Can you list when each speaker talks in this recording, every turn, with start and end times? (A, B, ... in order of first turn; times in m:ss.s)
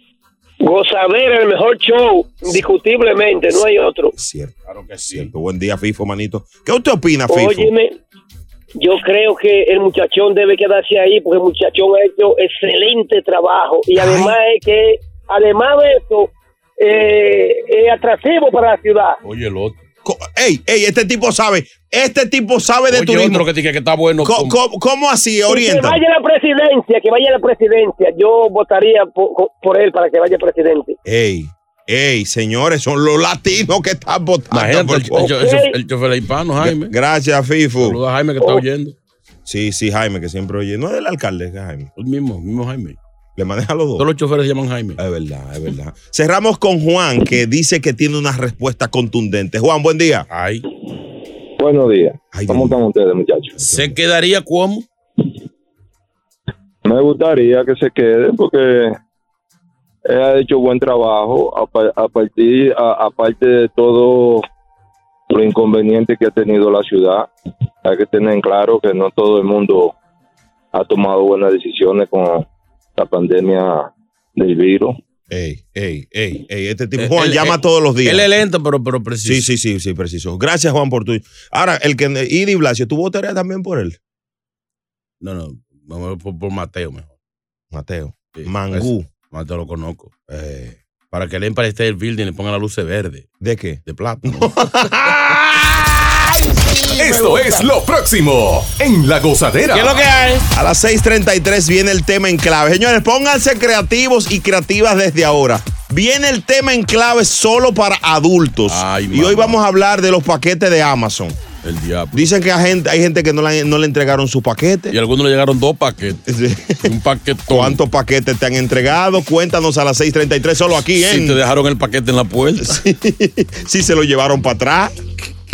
0:00.6-0:04.1 A
0:04.1-0:04.5 B
0:04.6-0:05.3 C
0:05.1-0:07.7 B
0:07.3-0:07.9 A
0:08.8-0:19.2 A
0:13.9-0:14.4 B
0:19.2-0:19.8 C
0:20.0-0:23.4 B
0:22.9-0:24.6 C
0:24.2-0:26.0 B
0:25.5-0:31.0 A
0:31.0-0:35.4 B
0:34.5-0:36.9 C
0:35.2-0:35.7 A
0:36.6-0:38.0 B
0:37.8-0:39.0 C
0:39.4-0:41.9 B
0:42.0-0:43.0 C
0:43.4-0:44.0 B
0:44.0-0:45.0 C
0:45.0-0:50.2 B
0:50.3-0:50.6 C
0:51.6-0:53.6 D
0:52.3-0:52.8 B
0:53.6-0:54.0 B
0:53.6-0:54.8 C
0:56.8-0:59.0 D
1:00.1-1:04.4 D
1:05.3-1:07.3 D
1:07.8-1:09.9 D
1:10.7-1:12.4 D
1:13.0-1:14.9 D
1:15.3-1:18.3 B
1:17.0-1:19.5 C
1:19.2-1:24.0 B
1:25.2-1:27.1 C
1:27.7-1:29.1 B
1:28.3-1:30.1 C
1:30.3-1:30.8 B
1:31.1-1:33.3 C
1:33.4-1:37.7 B
1:33.8-1:34.6 C
1:36.9-1:40.0 E
1:39.7-1:40.5 C
1:40.5-1:51.4 B
1:48.7-1:49.6 C
1:51.6-1:52.3 C
1:52.1-1:55.0 B
1:54.9-1:56.2 C
1:56.2-1:56.9 B
1:56.8-1:57.8 C
1:57.5-2:01.4 B
2:00.9-2:02.8 C
2:02.6-2:05.0 B